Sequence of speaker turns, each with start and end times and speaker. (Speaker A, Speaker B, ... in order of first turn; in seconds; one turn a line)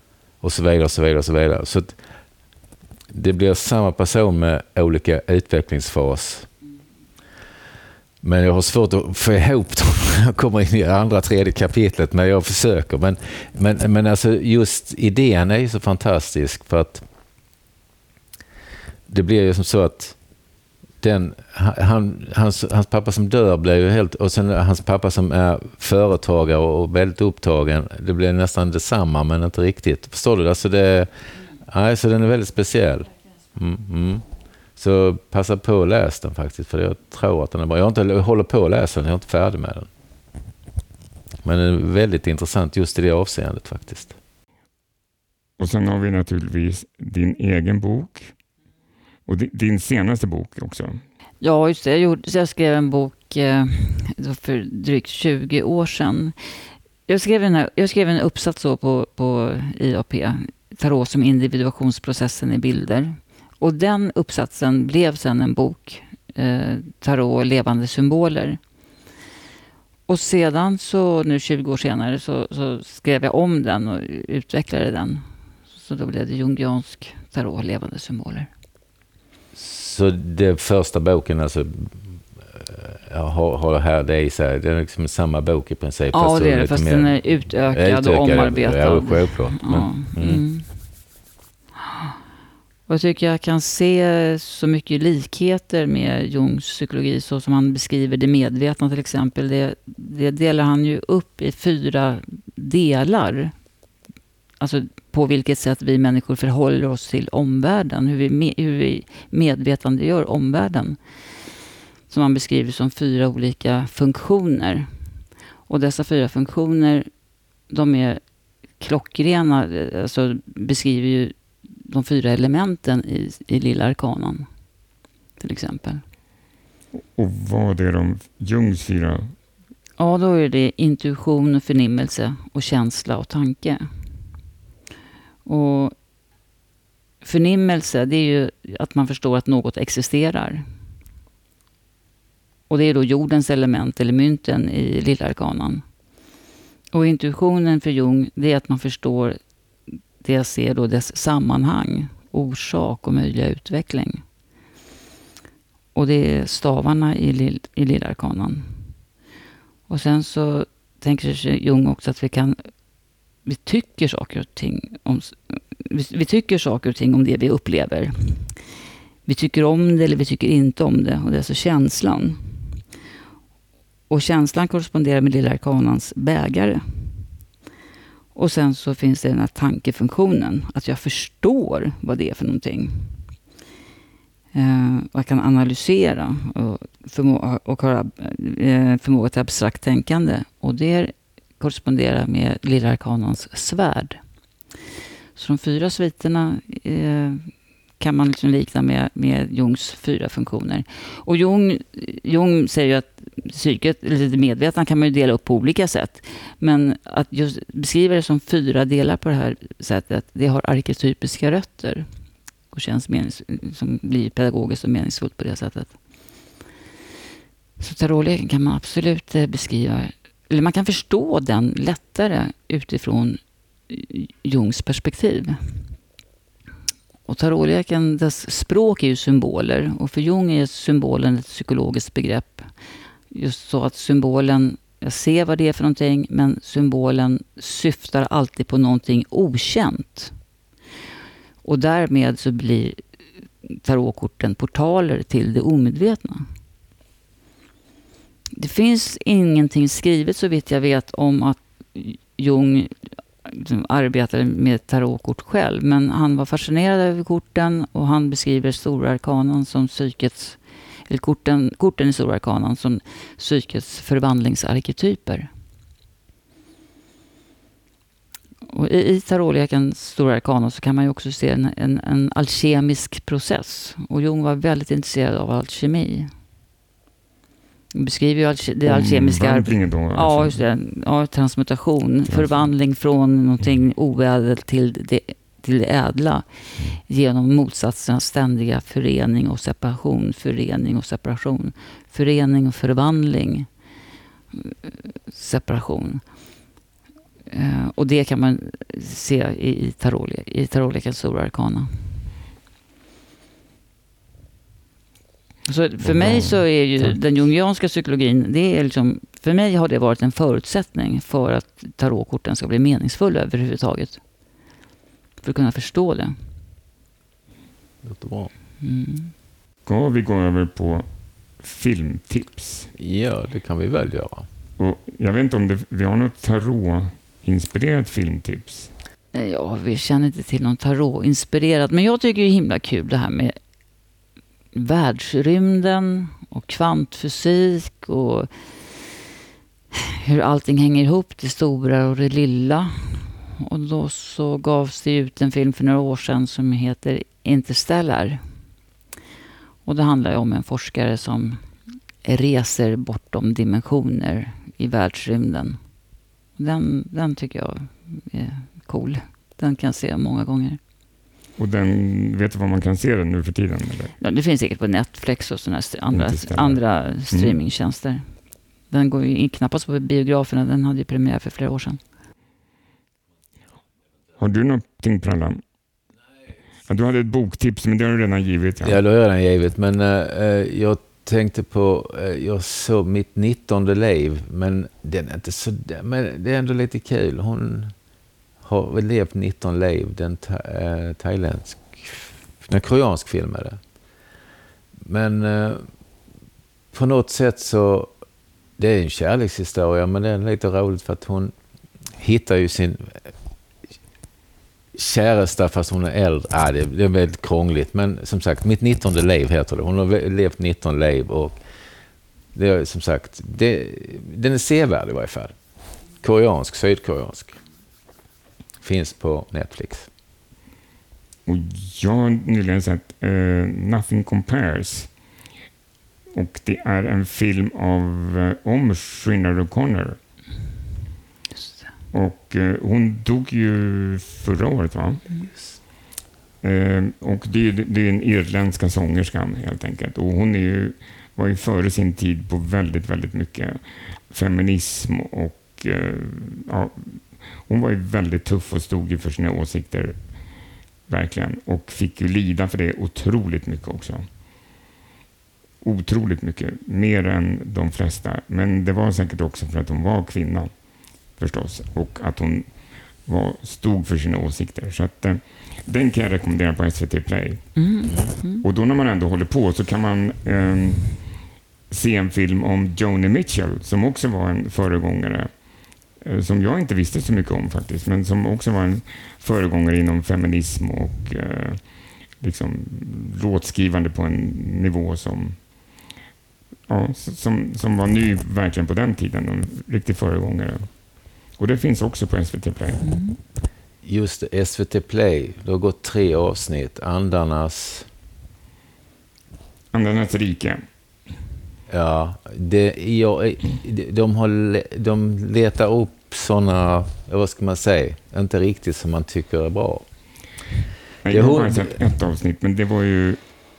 Speaker A: 0.4-2.0
Speaker A: 3.1-6.5
Speaker A: 8.2-17.0
Speaker A: 19.1-20.2
Speaker A: 21.0-39.9
Speaker A: 41.4-44.1
Speaker B: 45.6-48.3
Speaker B: 49.3-51.0
Speaker C: 51.4-56.3
Speaker C: 57.1-68.6
Speaker C: 70.1-75.2
Speaker C: 75.8-78.5
Speaker A: 79.5-90.4
Speaker C: 86.1-90.7
Speaker C: 92.9-103.5
Speaker C: 104.6-111.0
Speaker C: 112.1-114.9
Speaker C: 115.7-117.1
Speaker C: 117.7-118.2
Speaker C: 118.8-124.5
Speaker C: 125.4-126.0
Speaker B: 127.1-129.3
Speaker C: 130.0-133.8
Speaker C: 135.4-135.9
Speaker C: 137.2-140.6
Speaker C: 142.7-145.8
Speaker C: 146.9-149.4
Speaker C: 150.2-154.2
Speaker C: 155.9-158.7
Speaker C: 159.9-162.7
Speaker C: 163.4-168.5
Speaker C: 169.2-172.4
Speaker C: 174.1-177.1
Speaker C: 178.3-183.2
Speaker C: 184.5-194.2
Speaker C: 195.3-212.0
Speaker C: 212.7-215.9
Speaker C: 217.8-225.6
Speaker C: 227.3-232.7
Speaker C: 233.3-240.3
Speaker C: 241.6-243.0
Speaker C: 243.6-246.4
Speaker C: 248.5-265.5
Speaker C: 268.6-276.3
Speaker C: 277.9-293.7
Speaker B: 278.8-280.6
Speaker B: 282.3-282.7
Speaker C: 294.5-296.2
Speaker C: 297.5-301.9
Speaker C: 305.6-314.2
Speaker B: 306.0-307.1
Speaker C: 315.4-316.4
Speaker A: 318.0-318.5
Speaker C: 318.8-319.3
Speaker B: 319.9-321.1
Speaker B: 321.6-322.9
Speaker A: 323.0-324.5
Speaker B: 324.8-328.9
Speaker C: 329.3-333.5
Speaker C: 334.7-338.9
Speaker C: 339.9-348.4
Speaker C: 349.8-351.6
Speaker C: 352.2-355.8
Speaker C: 356.6-360.8
Speaker B: 361.6-364.2
Speaker C: 364.2-368.3
Speaker B: 366.1-367.6
Speaker C: 368.9-372.0
Speaker B: 374.4-375.6
Speaker B: 376.9-379.0
Speaker A: 378.8-387.9
Speaker A: 388.6-393.8
Speaker A: 395.0-395.8
Speaker A: 396.9-398.1
Speaker A: 398.8-401.5
Speaker A: 402.2-403.3
Speaker A: 404.9-411.6
Speaker A: 412.5-415.5
Speaker A: 416.2-417.6
Speaker A: 418.8-420.1
Speaker B: 421.4-425.1
Speaker B: 426.3-430.2
Speaker B: 432.1-435.2
Speaker B: 436.6-450.3
Speaker B: 451.1-454.2
Speaker B: 455.8-471.3
Speaker C: 467.8-468.6
Speaker B: 471.9-485.7
Speaker B: 486.9-493.0
Speaker C: 493.0-493.4
Speaker A: 494.0-498.1
Speaker B: 499.9-500.8
Speaker A: 501.9-510.1
Speaker B: 511.2-513.5
Speaker A: 511.3-512.0